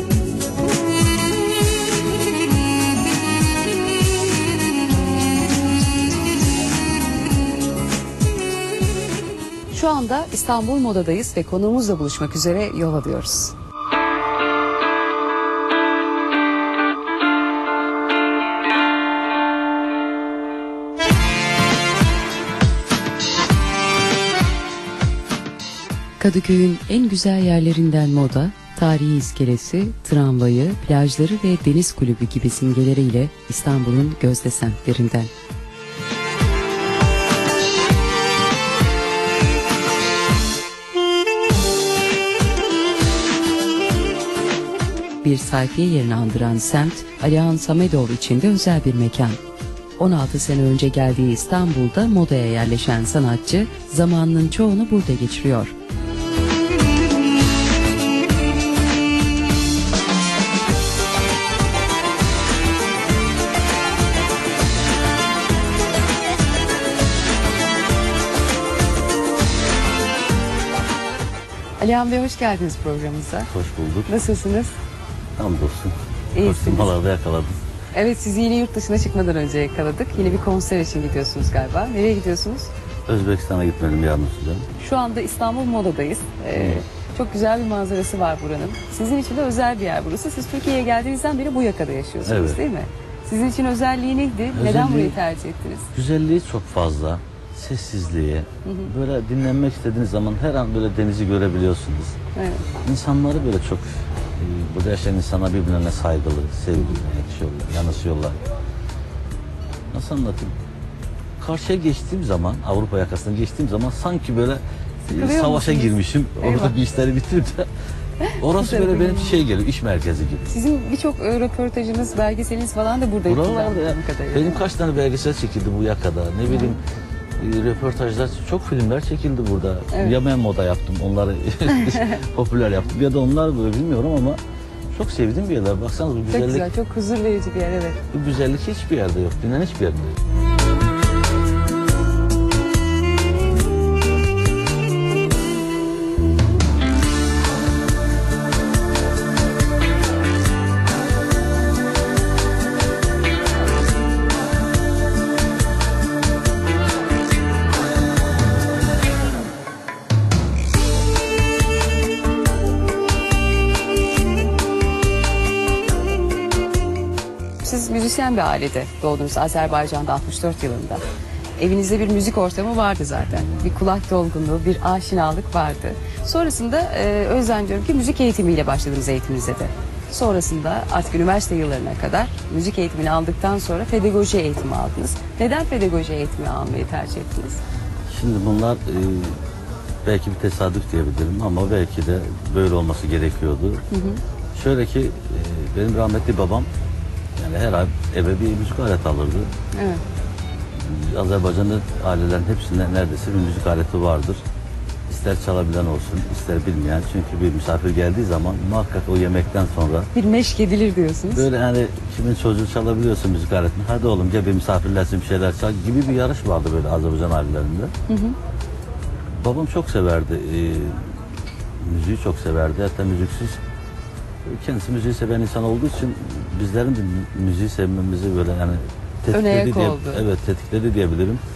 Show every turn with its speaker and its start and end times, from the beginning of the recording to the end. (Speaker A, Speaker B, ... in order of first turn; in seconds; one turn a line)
Speaker A: 9.7-13.6
Speaker A: 26.2-35.3
Speaker A: 45.2-49.4
Speaker A: 50.0-55.7
Speaker A: 71.8-73.5
Speaker B: 73.5-74.1
Speaker A: 74.1-74.8
Speaker B: 75.4-77.6
Speaker A: 76.3-76.9
Speaker A: 77.9-82.7
Speaker B: 83.1-84.7
Speaker A: 84.8-95.9
Speaker B: 86.5-86.8
Speaker B: 92.2-92.6
Speaker B: 94.5-95.2
Speaker B: 95.9-102.2
Speaker A: 98.7-98.9
Speaker A: 102.3-102.7
Speaker B: 102.8-108.4
Speaker B: 109.9-110.5
Speaker B: 111.4-117.7
Speaker A: 115.1-116.8
Speaker A: 118.2-119.4
Speaker B: 118.4-120.5
Speaker A: 120.5-124.6
Speaker B: 123.3-126.8
Speaker A: 126.5-126.7
Speaker B: 127.4-134.4
Speaker A: 129.9-130.2
Speaker A: 131.8-132.2
Speaker B: 134.9-136.7
Speaker A: 136.3-138.0
Speaker B: 138.1-140.2
Speaker A: 167.6-171.0
Speaker A: 171.6-187.6
Speaker B: 173.3-173.7
Speaker B: 188.1-189.4
Speaker B: 190.1-193.8
Speaker A: 193.9-194.2
Speaker B: 194.6-196.7
Speaker B: 197.4-199.5
Speaker A: 199.8-200.0
Speaker B: 200.8-204.4
Speaker B: 205.1-210.1
Speaker A: 210.1-211.5
Speaker B: 211.3-217.9
Speaker A: 218.1-218.4
Speaker B: 219.3-221.2
Speaker B: 221.8-223.6
Speaker B: 224.5-231.4
Speaker A: 229.3-230.2